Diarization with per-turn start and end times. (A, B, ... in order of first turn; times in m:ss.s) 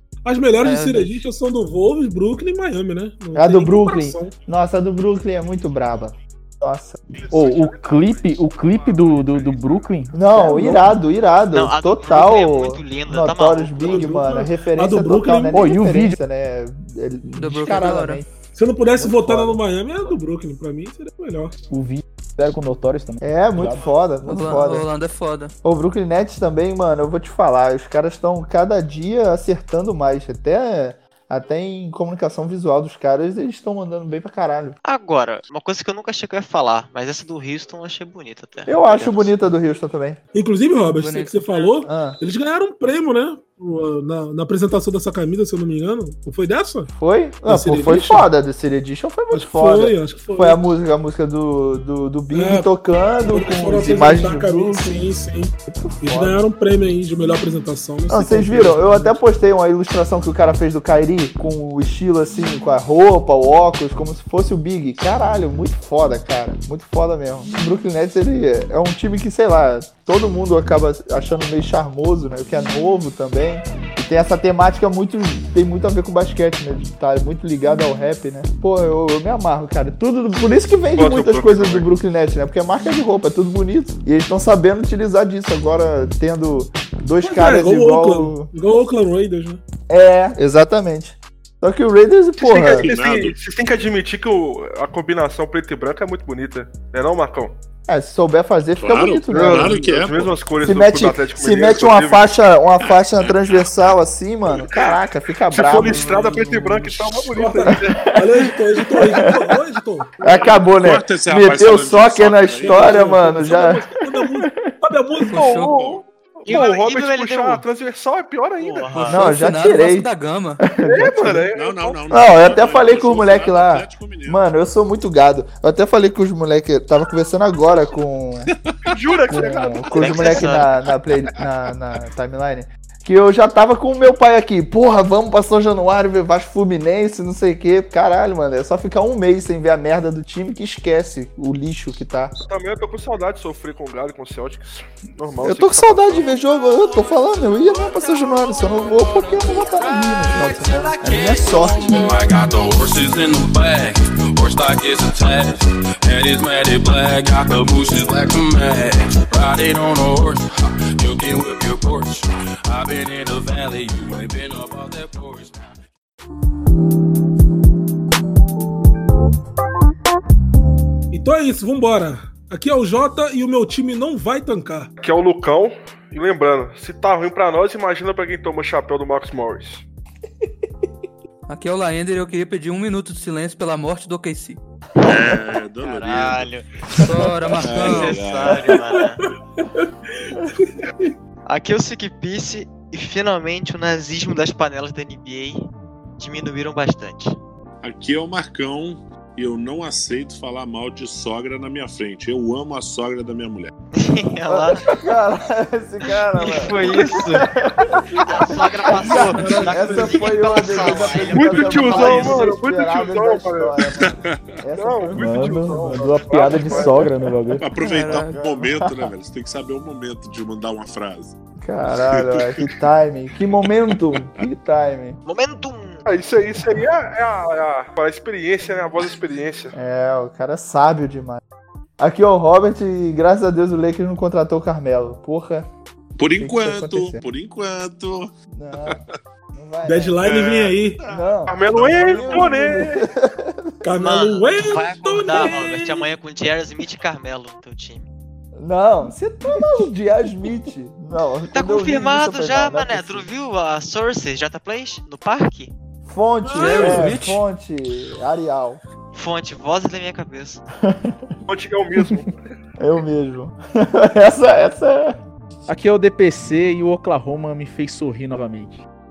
0:00.2-0:04.4 A
0:00.6-0:01.2 B
0:03.3-0:07.0 C
0:07.1-0:09.9 D
0:07.3-0:11.0 E
0:10.1-0:18.3 C
0:11.5-0:14.1 F
0:13.8-0:15.8 A
0:15.5-0:16.2 E
0:17.3-0:18.2 B
0:18.5-0:21.6 A
0:19.0-0:19.6 C
0:21.7-0:23.8 E
0:23.2-0:24.9 C
0:24.2-0:25.5 B
0:25.6-0:34.8 C
0:34.8-0:39.3 F
0:38.7-0:40.2 C
0:40.3-0:46.9 A
0:40.9-0:41.8 B
0:41.8-0:42.2 C
0:46.9-0:55.1 C
0:47.4-0:48.3 A
0:49.3-0:50.6 A
0:52.3-0:52.7 A
0:53.2-0:59.2 A
0:55.7-0:56.4 C
0:58.1-1:28.5 C
1:21.0-1:21.9 G
1:27.2-1:29.6 A
1:29.9-1:32.9 C
1:32.4-1:37.5 G
1:32.6-1:33.4 D
1:37.9-1:39.9 C
1:38.8-1:40.4 D
1:39.3-1:42.3 G
1:40.6-1:46.0 C
1:43.1-1:43.7 D
1:44.5-1:44.9 D
1:45.5-1:48.1 G
1:46.0-1:50.5 A
1:47.2-1:49.6 C
1:50.2-1:54.8 C
1:50.3-1:53.2 D
1:52.6-1:55.6 A
1:55.2-1:55.9 B
1:55.3-1:59.0 G
1:55.7-1:56.0 D
1:56.5-1:57.6 F
1:58.6-1:59.3 F
1:59.1-2:00.6 B
1:59.1-2:01.5 C
2:00.8-2:02.0 G
2:01.5-2:04.4 D
2:02.1-2:08.5 C
2:08.5-2:09.0 D
2:08.8-2:10.4 G
2:09.3-2:22.3 C
2:09.9-2:10.7 F
2:10.0-2:10.7 D
2:22.4-2:26.3 G
2:25.4-2:32.1 C
2:29.3-2:45.7 H
2:30.4-2:30.7 B
2:51.1-2:54.9 A
2:55.0-2:59.8 G
3:01.5-3:04.6 B
3:05.0-3:06.6 D
3:05.0-3:06.6 F
3:06.9-3:08.2 B
3:07.6-3:08.7 D
3:07.6-3:09.2 F
3:08.7-3:09.9 A
3:11.4-3:15.7 F
3:16.2-3:17.4 F
3:17.8-3:23.7 D
3:23.9-3:24.9 F
3:24.5-3:37.1 C
3:26.3-3:27.5 F
3:28.1-3:32.5 F
3:29.1-3:30.2 B
3:31.0-3:33.7 G
3:33.9-3:34.6 D
3:34.8-3:37.1 G
3:35.2-3:37.7 E
3:37.5-3:41.3 D
3:37.8-3:39.0 B
3:41.6-3:45.2 C
3:42.0-3:42.7 D
3:43.6-3:44.4 D
3:45.2-3:46.0 F
3:46.0-3:49.7 G
3:49.7-3:51.4 C
3:52.0-3:55.7 C
3:56.2-3:58.3 D
3:56.4-3:57.2 C
3:58.5-3:59.0 C
3:58.8-3:59.2 D
3:59.5-4:00.3 C
3:59.8-4:01.0 A
4:00.2-4:01.3 D
4:01.1-4:03.7 C
4:01.5-4:03.0 G
4:01.9-4:02.8 A
4:03.8-4:06.1 A
4:04.0-4:08.1 F
4:08.5-4:13.3 C
4:11.5-4:15.7 F
4:16.1-4:18.8 C
4:16.4-4:17.2 A
4:16.5-4:17.4 B
4:19.1-4:20.6 F
4:20.8-4:21.3 C
4:21.5-4:22.4 G
4:22.8-4:25.2 C
4:25.7-4:28.8 E